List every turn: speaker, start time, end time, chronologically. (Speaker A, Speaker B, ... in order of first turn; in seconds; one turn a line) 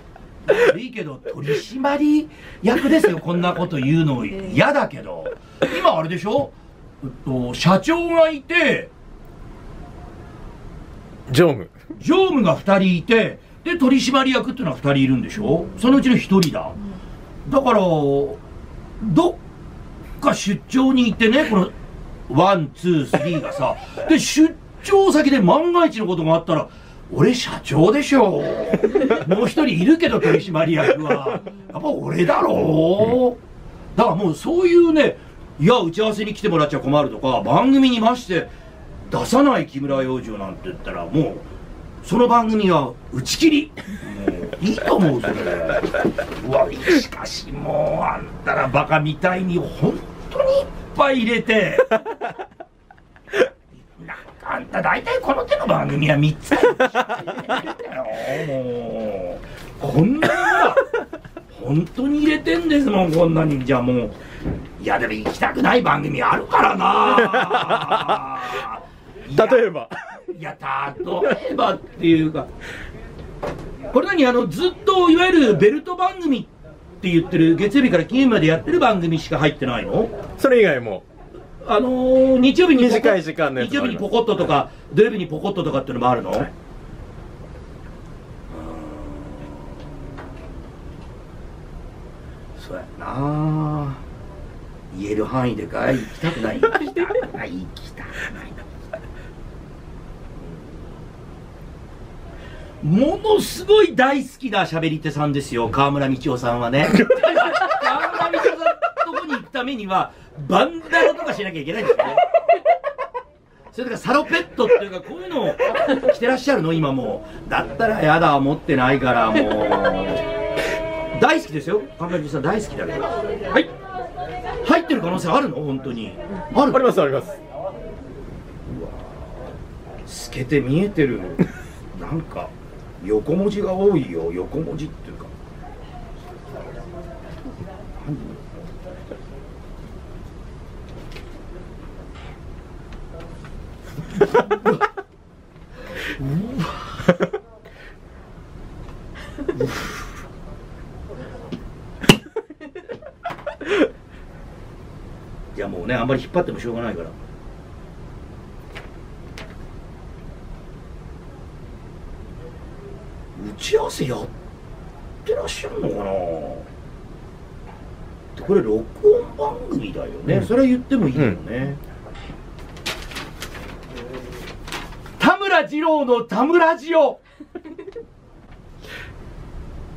Speaker A: 0.5-8.9
Speaker B: 11.3-11.7
Speaker A: 11.9-16.8
Speaker A: 17.4-18.4
Speaker A: 19.0-19.4
Speaker A: 20.2-21.7
Speaker A: 22.3-33.4
Speaker A: 34.0-38.5
Speaker A: 39.1-41.5
Speaker A: 42.0-51.9
Speaker A: 53.9-60.8
Speaker A: 61.5-64.2
Speaker A: 64.8-69.7
Speaker B: 67.2-68.2
Speaker B: 69.3-69.9
Speaker A: 70.3-72.5
Speaker A: 73.9-76.5
Speaker A: 77.0-80.1
Speaker B: 80.4-81.0
Speaker A: 81.6-86.5
Speaker B: 82.8-84.1
Speaker A: 88.5-89.7
Speaker A: 92.6-94.0
Speaker A: 94.9-98.6
Speaker A: 102.8-112.3
Speaker A: 113.7-120.2
Speaker A: 121.1-123.7
Speaker A: 124.6-127.1
Speaker B: 126.7-127.4
Speaker A: 128.7-129.2
Speaker A: 130.1-135.3
Speaker A: 138.0-138.5
Speaker A: 146.2-147.0
Speaker A: 155.5-157.1
Speaker A: 163.3-164.3
Speaker A: 165.2-166.7
Speaker A: 168.3-171.8
Speaker A: 175.2-177.2